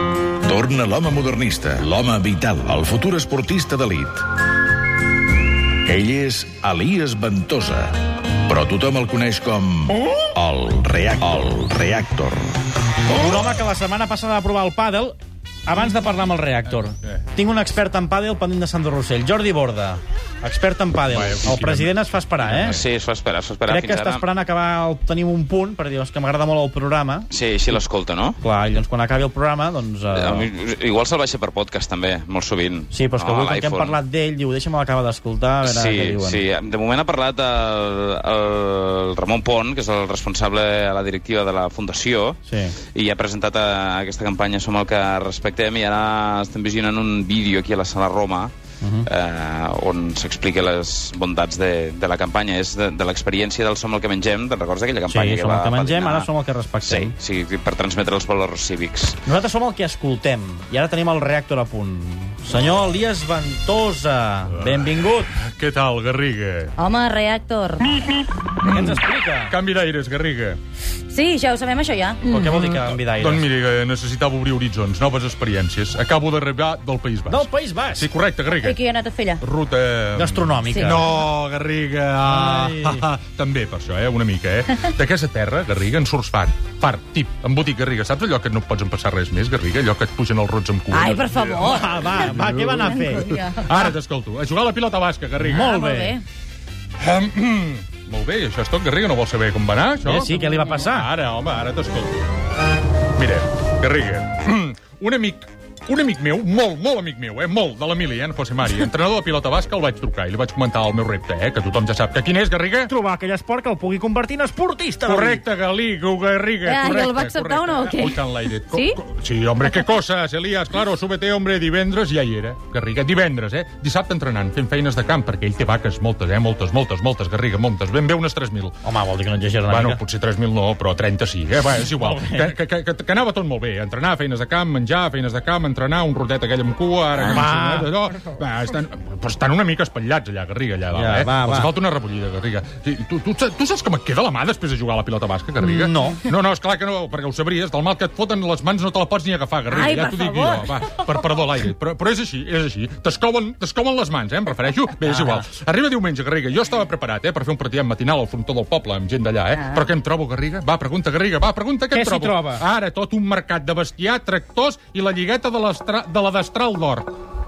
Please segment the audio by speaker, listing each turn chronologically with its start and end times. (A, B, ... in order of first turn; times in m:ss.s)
0:00.4-0:04.3 A
0:05.8-0:12.6 A
0:13.1-0:22.8 B
0:21.1-0:22.9 C
0:22.6-0:24.3 D
0:23.7-0:27.8 B
0:27.3-0:28.4 D
0:28.4-0:30.5 B
0:30.1-0:34.0 D
0:32.9-0:36.4 B
0:35.6-0:42.4 D
0:42.4-0:42.8 B
0:42.9-0:48.5 D
0:48.8-0:49.1 B
0:49.0-0:56.3 D
0:55.1-0:57.2 B
0:56.8-0:59.2 D
0:59.2-1:05.3 B
1:04.6-1:04.9 C
1:05.5-1:06.7 C
1:06.8-1:08.1 E
1:08.6-1:10.6 C
1:08.7-1:09.5 B
1:11.1-1:12.2 E
1:12.2-1:13.4 B
1:12.3-1:18.8 C
1:17.3-1:18.1 B
1:18.5-1:19.4 E
1:19.4-1:35.7 C
1:20.2-1:21.1 B
1:20.7-1:21.0 E
1:22.2-1:23.0 B
1:30.9-1:32.2 E
1:31.6-1:33.9 B
1:32.9-1:33.8 E
1:35.4-1:36.2 B
1:35.6-1:36.2 E
1:37.0-1:42.3 C
1:40.0-1:41.1 B
1:43.2-1:52.9 C
1:52.9-1:55.4 B
1:55.1-2:08.8 C
1:56.6-1:59.0 E
2:08.8-2:10.0 B
2:09.7-2:47.1 C
2:11.9-2:12.6 B
2:17.2-2:17.9 B
2:20.9-2:21.7 B
2:25.6-2:26.2 B
2:29.7-2:30.8 E
2:35.1-2:35.5 B
2:39.5-2:39.8 E
2:41.9-2:42.6 B